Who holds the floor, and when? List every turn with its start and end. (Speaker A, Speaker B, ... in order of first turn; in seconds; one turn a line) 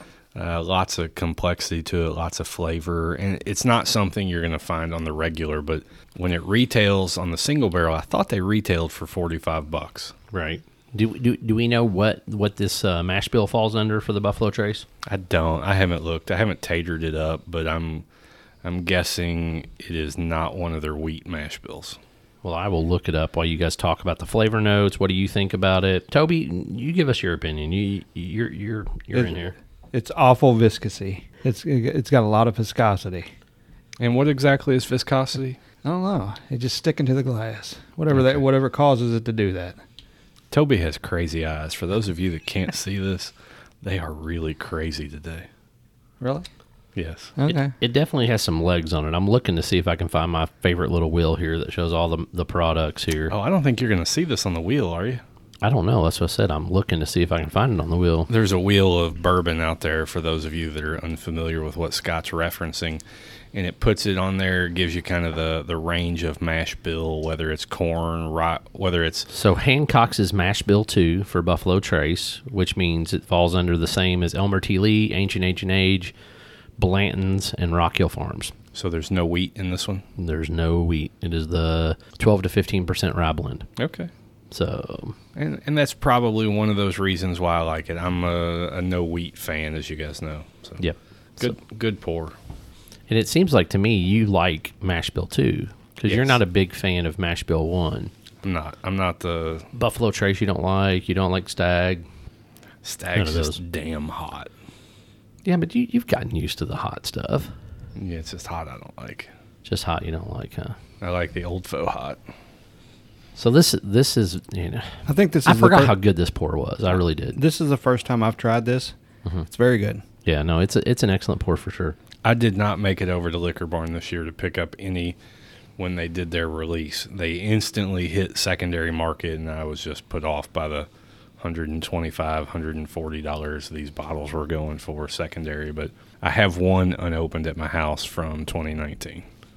Speaker A: 0.3-10.1
Speaker B: 10.3-14.8
Speaker A: 15.0-18.0
Speaker A: 18.6-22.0
Speaker B: 22.4-29.6
Speaker C: 29.9-33.3
Speaker A: 34.0-35.6
Speaker C: 35.8-39.8
Speaker A: 40.5-45.5
Speaker C: 46.2-46.5
Speaker A: 47.0-47.3
Speaker C: 47.4-47.7
Speaker B: 47.5-53.3
Speaker A: 53.3-55.2
Speaker B: 55.6-58.3
Speaker A: 58.3-63.0
Speaker A: 63.5-69.3
Speaker B: 69.3-76.1
Speaker B: 76.8-78.5
Speaker A: 78.7-80.0
Speaker B: 80.2-83.7
Speaker A: 83.8-84.1
Speaker B: 84.5-85.2
Speaker A: 85.3-90.8
Speaker B: 90.8-91.6
Speaker A: 91.4-92.3
Speaker B: 93.1-98.1
Speaker A: 96.1-96.4
Speaker A: 98.4-99.7
Speaker B: 99.7-102.0
Speaker A: 102.8-104.5
Speaker B: 103.1-103.6
Speaker B: 105.4-107.5
Speaker A: 108.0-109.3
Speaker B: 109.6-110.8
Speaker A: 111.0-112.2
Speaker B: 113.3-117.4
Speaker C: 115.0-116.0
Speaker C: 117.3-119.0
Speaker C: 119.5-120.0
Speaker B: 120.2-122.0
Speaker A: 122.2-125.2
Speaker A: 125.8-130.9
Speaker A: 131.4-139.2